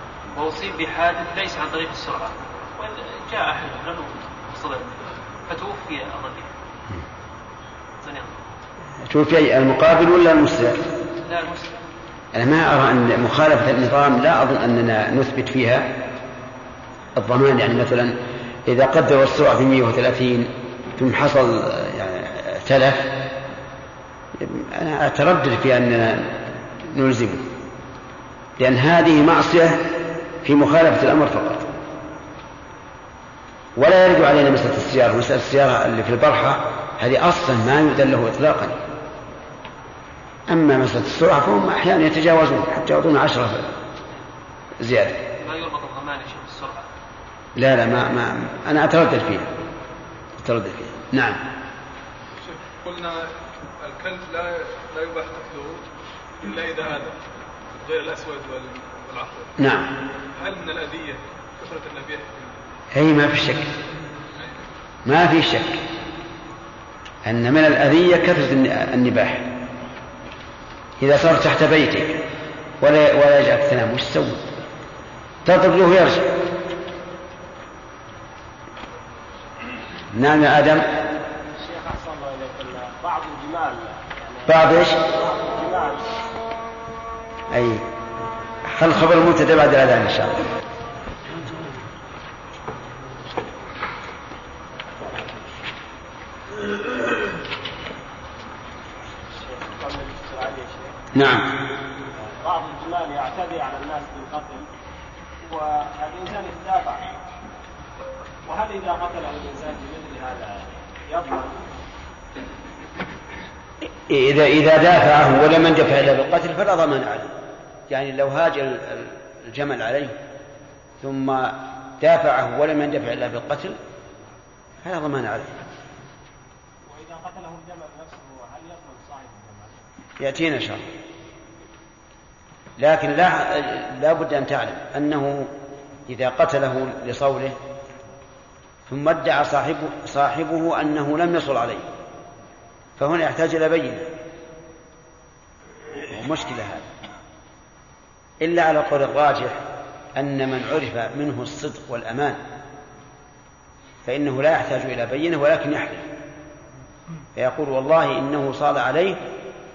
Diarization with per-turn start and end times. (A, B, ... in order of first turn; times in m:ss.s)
0:00.3-0:06.5 A
0:08.0-0:08.3 A
0:09.0-0:10.9 B
0:11.2-0:11.7 A
0:12.3-0:16.0 B
0:17.2-0:23.3 B
0:24.4-0:27.5 B
0:28.6-0:31.7 B
0:33.8-0:38.8 B
0:40.5-0:43.8 B
0:44.8-0:45.2 B
0:45.4-0:46.9 A
0:47.6-0:49.5 B
0:50.4-0:51.4 B
0:52.4-0:53.2 C
0:53.8-0:55.8 C
0:56.4-0:57.2 C
0:57.8-0:59.6 C
0:59.6-0:59.9 B
1:00.4-1:02.6 C
1:02.9-1:03.7 B
1:05.0-1:05.8 B
1:07.2-1:09.5 B
1:11.0-1:12.2 B
1:12.8-1:14.5 B
1:15.4-1:16.3 B
1:20.1-1:20.9 B
1:21.6-1:26.2 D
1:24.5-1:25.0 B
1:27.5-1:27.9 B
1:28.7-1:30.4 B
1:39.4-1:41.0 D
1:41.1-1:41.5 B
1:42.2-1:44.7 D
1:45.4-1:47.0 D
1:48.4-1:51.7 D
1:54.1-1:57.3 B
1:57.9-2:00.2 B
2:01.0-2:03.8 B
2:04.8-2:05.6 B
2:06.8-2:09.8 D
2:10.2-2:10.9 B
2:12.8-2:15.5 B
2:16.1-2:17.6 B
2:18.9-2:21.9 B
2:23.0-2:24.1 B
2:26.1-2:26.8 B
2:28.4-2:32.4 B
2:34.0-2:36.1 B
2:37.4-2:39.3 B